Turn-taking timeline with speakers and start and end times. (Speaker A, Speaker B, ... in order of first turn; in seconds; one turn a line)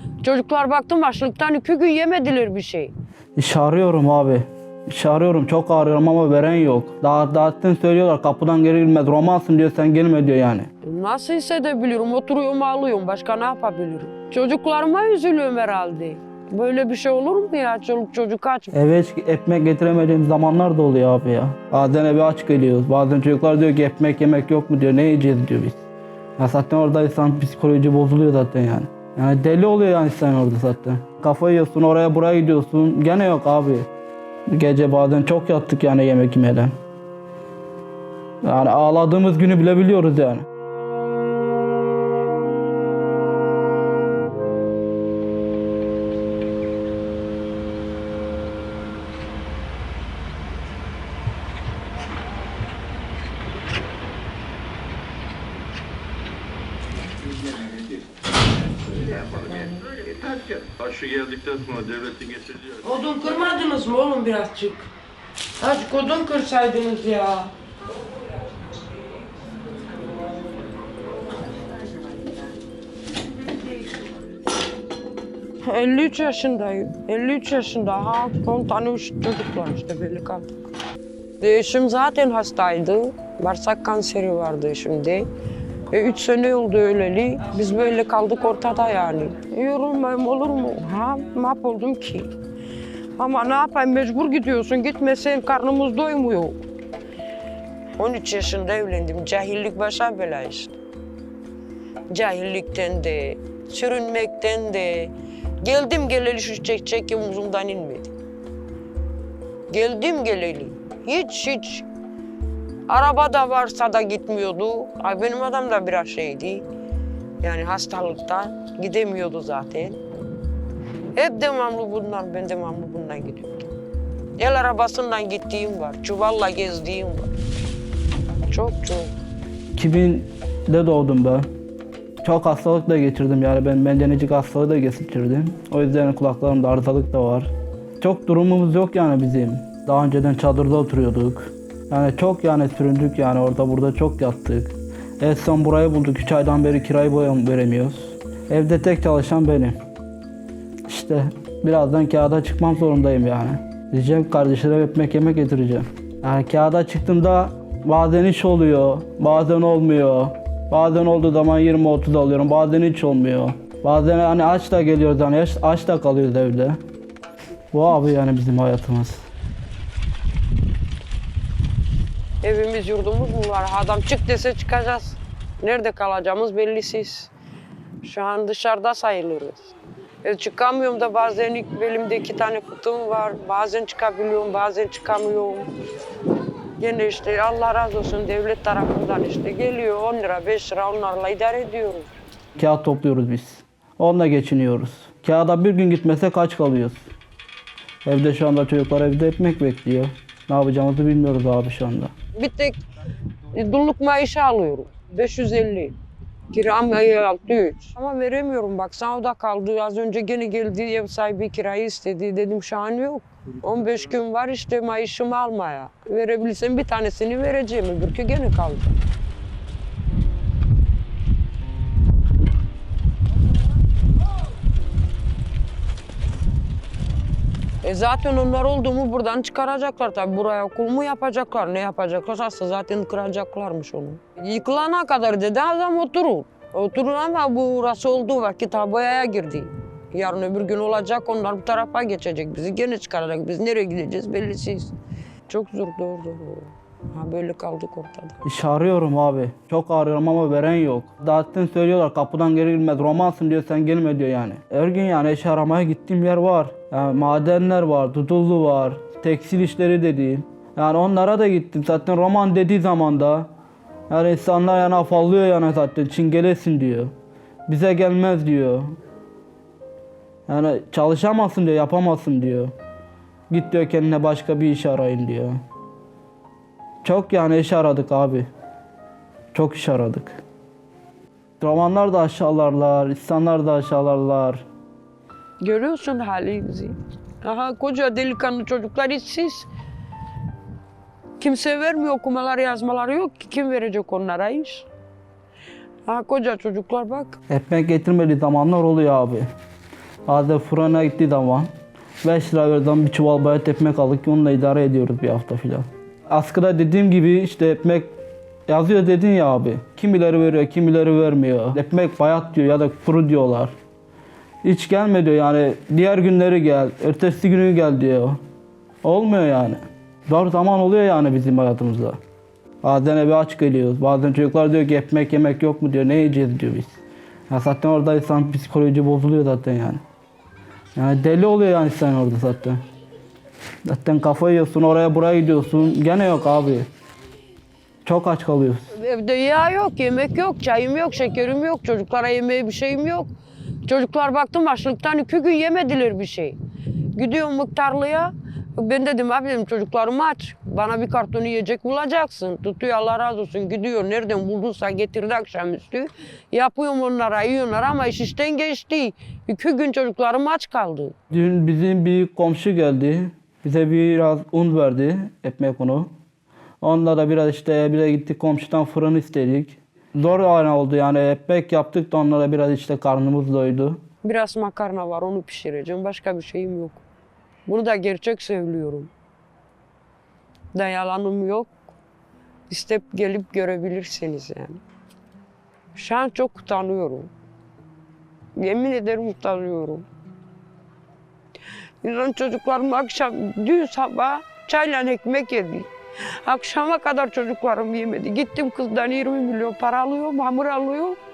Speaker A: 0.2-2.9
Speaker B: 3.4-10.7
Speaker A: 10.8-18.7
Speaker B: 18.7-25.8
Speaker B: 26.4-33.9
Speaker B: 34.5-36.7
Speaker B: 38.4-40.5
Speaker C: 59.1-59.4
Speaker A: 59.5-60.0
Speaker C: 60.1-62.8
Speaker A: 62.8-64.9
Speaker A: 65.6-67.5
Speaker A: 75.6-80.5
Speaker A: 81.4-85.3
Speaker A: 85.9-92.3
Speaker A: 93.2-96.6
Speaker A: 98.0-100.8
Speaker A: 102.1-108.1
Speaker A: 109.7-111.8
Speaker A: 112.9-116.6
Speaker A: 117.4-120.0
Speaker A: 121.1-123.7
Speaker A: 124.4-127.3
Speaker A: 128.5-129.1
Speaker B: 129.8-131.5
Speaker B: 132.2-149.8
Speaker B: 150.9-166.8
Speaker B: 167.7-169.3
Speaker A: 172.4-177.3
Speaker A: 178.0-185.7
Speaker A: 186.8-192.1
Speaker B: 192.6-197.1
Speaker B: 198.0-202.1
Speaker A: 202.3-202.8
Speaker A: 203.5-205.9
Speaker A: 206.5-219.0
Speaker A: 227.8-244.9
Speaker A: 245.5-248.4
Speaker B: 248.4-263.5
Speaker B: 264.1-267.1
Speaker B: 267.7-268.9
Speaker B: 270.5-272.7
Speaker B: 273.5-275.6
Speaker B: 277.0-278.5
Speaker B: 279.5-280.4
Speaker B: 281.6-284.6
Speaker A: 285.6-289.7
Speaker A: 291.4-294.9
Speaker A: 296.1-297.4
Speaker B: 297.5-299.5
Speaker B: 300.3-301.7
Speaker B: 302.2-308.1
Speaker B: 308.7-313.7
Speaker B: 314.6-318.4
Speaker B: 319.0-322.2
Speaker B: 322.8-327.0
Speaker B: 327.5-330.0
Speaker B: 330.9-332.8
Speaker B: 333.8-336.9
Speaker B: 338.0-338.9
Speaker A: 338.9-343.3
Speaker A: 343.8-346.6
Speaker A: 347.1-361.1
Speaker B: 361.3-366.1
Speaker B: 366.8-374.0
Speaker A: 374.2-377.0
Speaker A: 377.7-379.1
Speaker A: 380.7-381.7
Speaker A: 382.7-384.8
Speaker A: 385.9-387.3
Speaker A: 388.6-390.0
Speaker A: 392.0-395.9
Speaker A: 396.4-401.2